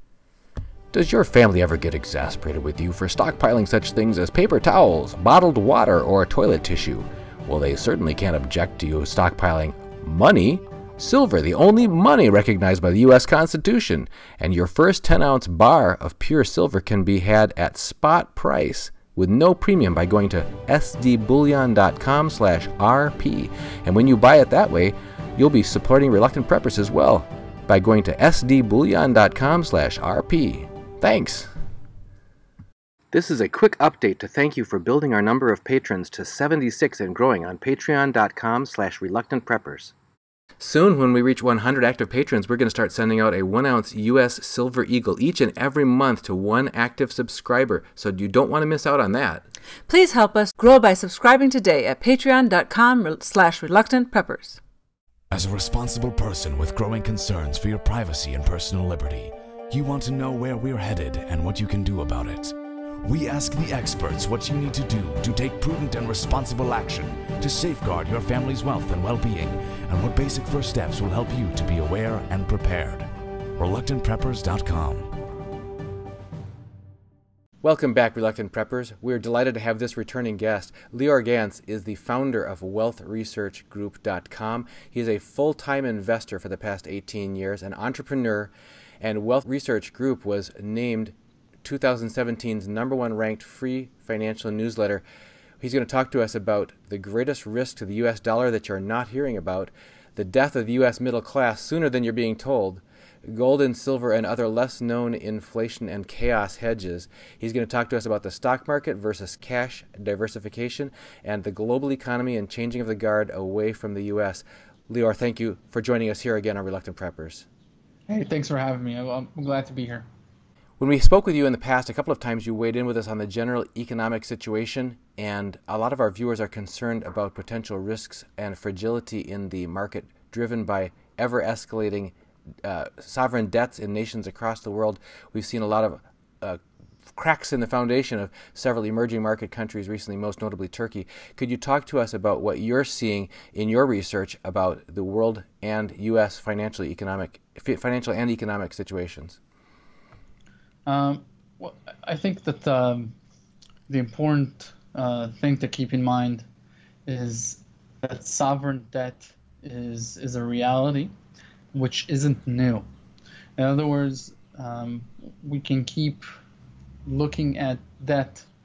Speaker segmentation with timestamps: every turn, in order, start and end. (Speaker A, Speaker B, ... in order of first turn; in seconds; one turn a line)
Speaker A: 0.9-31.5
Speaker A: 33.1-39.9
Speaker A: 40.6-49.4
Speaker B: 49.9-54.6
Speaker C: 55.3-75.1
Speaker A: 77.6-95.0
Speaker A: 95.6-117.5
Speaker D: 118.1-120.0
Speaker A: 120.8-132.1
Speaker A: 132.6-149.4
Speaker D: 150.8-153.1
Speaker D: 153.9-156.4
Speaker D: 157.1-161.1
Speaker D: 161.7-162.9
Speaker D: 163.6-166.2
Speaker D: 167.1-168.5